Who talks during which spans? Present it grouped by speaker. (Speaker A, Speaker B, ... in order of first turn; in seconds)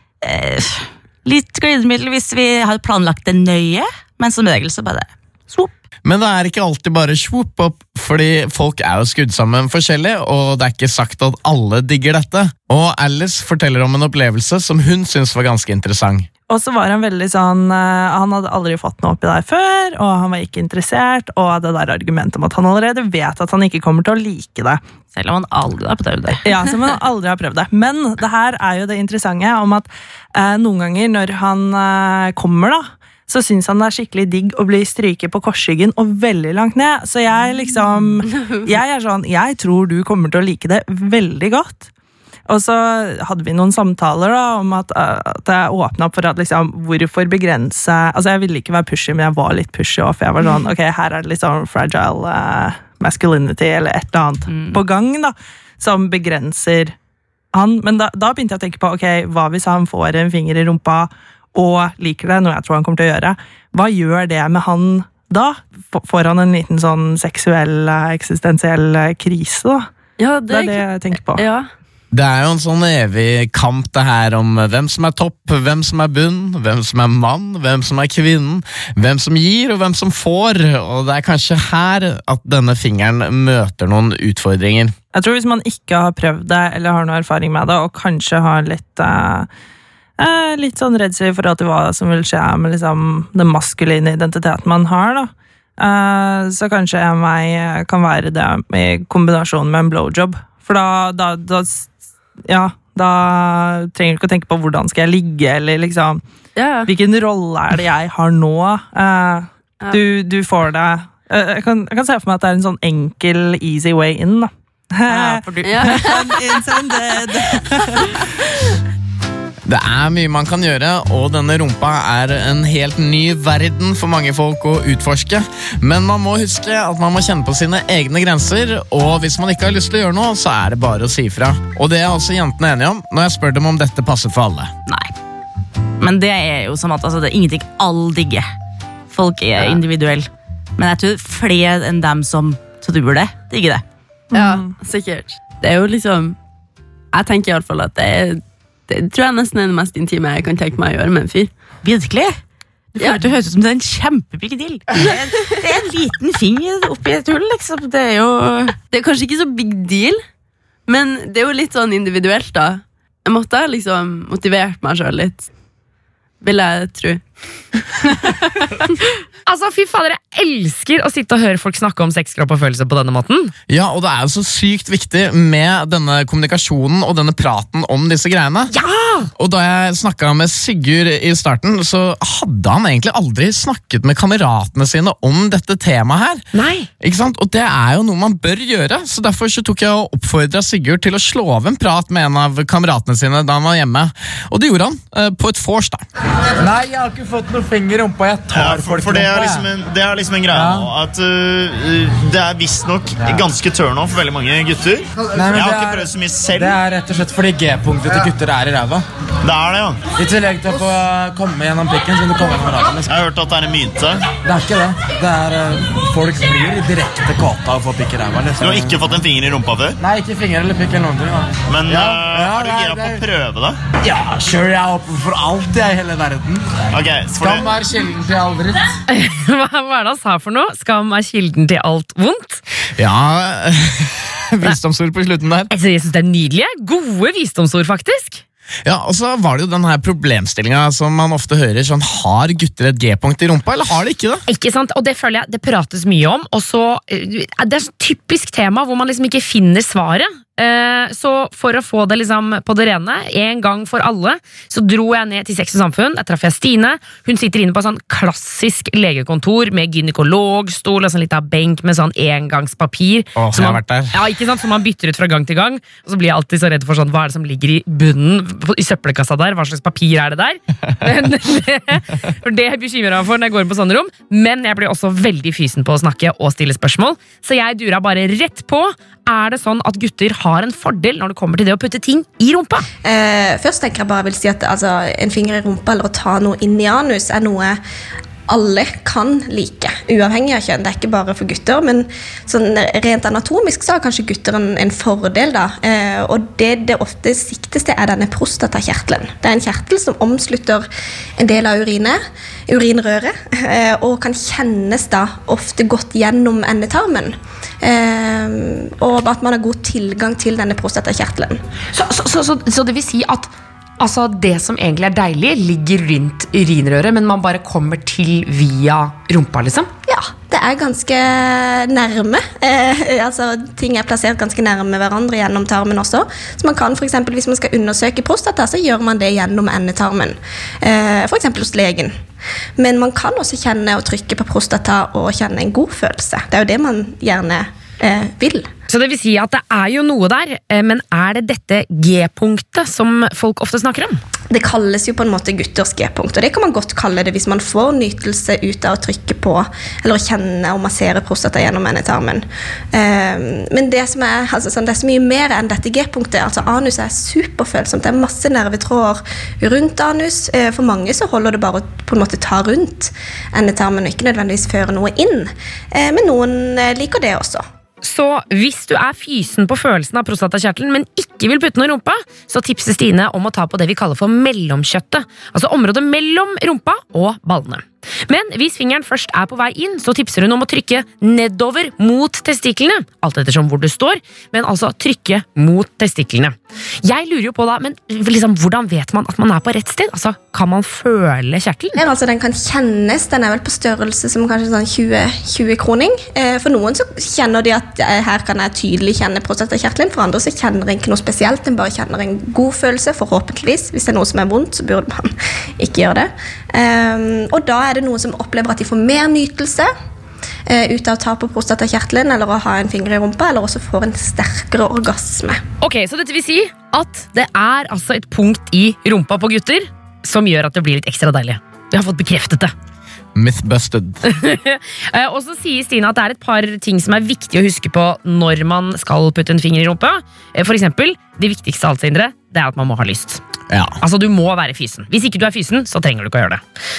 Speaker A: 0.2-5.7, 25.1-26.4, 54.5-54.8, 115.1-117.4, 134.9-135.1, 136.0-138.4, 139.1-143.8, 151.8-152.4, 153.0-158.8
Speaker B: 6.0-16.3, 72.1-84.9, 119.7-134.7, 173.7-178.7, 179.3-186.4, 187.0-196.0, 233.0-235.7, 238.8-244.4, 263.4-264.2, 423.3-424.2, 433.7-434.0
Speaker C: 16.5-24.8, 26.4-41.9, 42.5-56.9, 57.5-69.9, 70.5-71.4, 85.1-89.5, 90.2-101.9, 102.5-106.2, 106.9-118.2, 144.3-144.7
Speaker D: 70.2-71.7, 106.5-106.9, 115.6-116.2, 144.3-146.4, 147.1-151.5, 153.0-153.2, 158.9-160.2, 160.8-165.5, 166.4-167.2, 168.0-168.9
Speaker E: 169.4-173.5, 178.7-179.3, 186.5-186.9, 229.1-232.6, 235.7-238.4, 244.5-282.9, 311.9-319.9, 338.9-344.2, 368.0-392.0, 415.8-422.7, 424.2-433.4, 434.0-436.6
Speaker F: 196.6-199.7, 200.5-200.9, 203.2-203.5, 205.3-209.1, 210.2-213.2, 214.4-219.2, 220.0-223.2, 223.9-226.6, 227.4-228.8
Speaker G: 198.5-206.8, 209.4-210.0, 213.1-214.3, 218.6-220.0, 221.7-223.8, 226.9-227.7
Speaker H: 283.0-287.8, 288.5-300.9, 301.4-311.6, 320.1-332.1, 332.8-338.7, 344.5-367.6, 391.9-409.9, 410.7-415.6